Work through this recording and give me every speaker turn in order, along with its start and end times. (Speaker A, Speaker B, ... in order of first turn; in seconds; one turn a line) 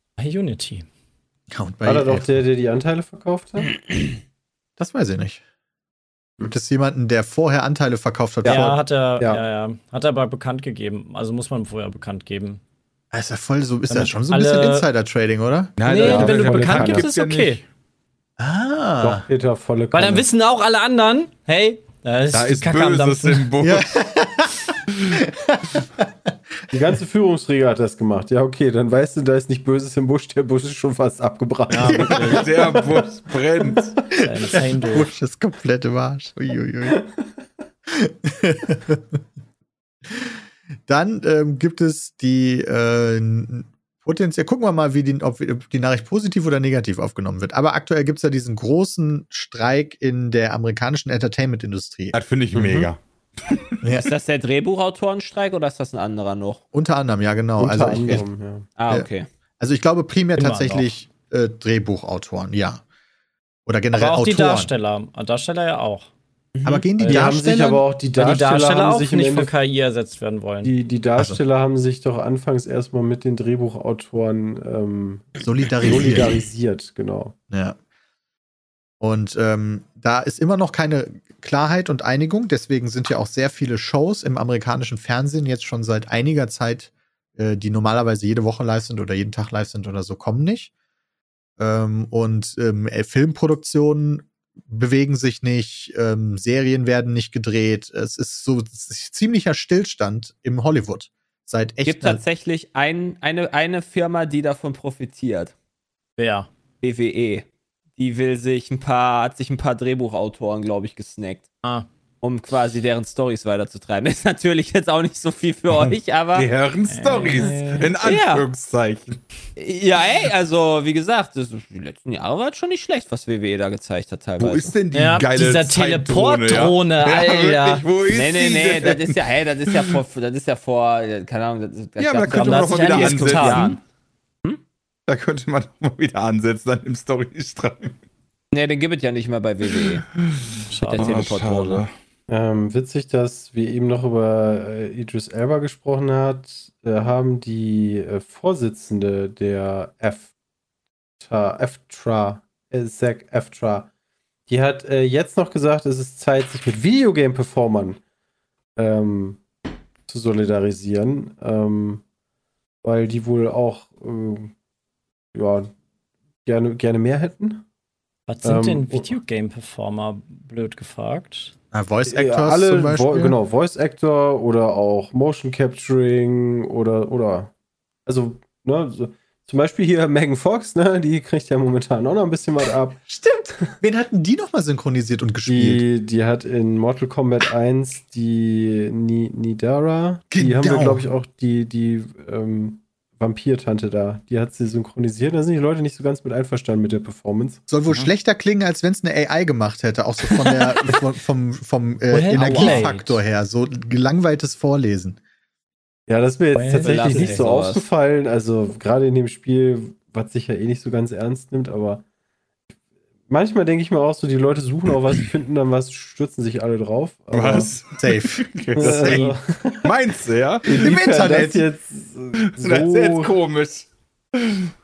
Speaker A: 0.2-0.9
Speaker B: 1.5-2.4
Speaker C: 1.9-3.8
Speaker B: 4.8-5.4
Speaker B: 6.4-8.8
Speaker A: 8.4-12.6
Speaker B: 13.1-15.8
Speaker A: 13.9-14.9
Speaker D: 15.8-17.6
Speaker A: 15.8-17.6
Speaker C: 15.9-17.1
Speaker B: 18.4-19.2
Speaker C: 19.0-20.3
Speaker A: 19.9-23.5
Speaker D: 22.3-24.0
Speaker B: 23.6-26.3
Speaker C: 26.7-33.2
Speaker A: 31.7-32.5
Speaker B: 31.8-32.4
Speaker D: 31.9-33.9
Speaker B: 34.1-37.0
Speaker A: 34.1-35.1
Speaker B: 37.9-39.2
Speaker B: 40.1-52.9
Speaker D: 52.1-53.8
Speaker E: 53.9-56.6
Speaker B: 56.7-58.2
Speaker C: 57.6-58.7
Speaker E: 57.9-58.2
Speaker E: 58.8-59.3
Speaker B: 59.6-62.8
Speaker A: 60.4-60.9
Speaker B: 63.7-64.7
Speaker A: 63.9-66.1
Speaker E: 66.5-66.8
Speaker B: 66.7-67.8
Speaker A: 67.0-67.4
Speaker C: 67.1-69.5
Speaker A: 68.2-70.7
Speaker C: 70.6-77.3
Speaker B: 75.4-76.3
Speaker B: 77.5-77.8
Speaker B: 79.0-90.7
Speaker B: 91.6-102.2
Speaker E: 101.9-105.5
Speaker A: 106.2-106.5
Speaker E: 106.8-107.5
Speaker E: 108.0-111.5
Speaker E: 112.2-116.5
Speaker D: 116.3-119.2
Speaker A: 116.9-117.8
Speaker E: 117.3-118.5
Speaker E: 119.6-124.8
Speaker D: 124.4-130.0
Speaker A: 124.9-127.8
Speaker E: 128.1-133.8
Speaker D: 132.0-133.8
Speaker A: 132.3-133.8
Speaker D: 135.1-138.0
Speaker E: 138.5-140.1
Speaker D: 140.0-141.9
Speaker A: 140.7-141.2
Speaker E: 140.8-141.8
Speaker C: 142.3-150.3
Speaker C: 151.2-153.9
Speaker C: 154.5-158.0
Speaker C: 158.8-159.4
Speaker C: 160.1-162.0
Speaker C: 162.8-164.5
Speaker C: 165.3-165.7
Speaker C: 166.4-167.7
Speaker A: 168.3-171.5
Speaker C: 168.4-169.1
Speaker B: 171.7-173.4
Speaker C: 172.1-177.5
Speaker C: 178.1-183.1
Speaker B: 183.1-185.8
Speaker C: 185.5-197.6
Speaker B: 190.3-191.1
Speaker B: 197.7-205.2
Speaker A: 202.1-203.2
Speaker C: 202.5-202.8
Speaker C: 206.1-212.0
Speaker A: 206.5-207.4
Speaker E: 206.8-207.8
Speaker C: 213.3-217.7
Speaker D: 217.3-220.8
Speaker B: 218.0-219.3
Speaker C: 218.8-219.9
Speaker C: 220.7-223.3
Speaker B: 220.8-221.6
Speaker D: 222.4-223.9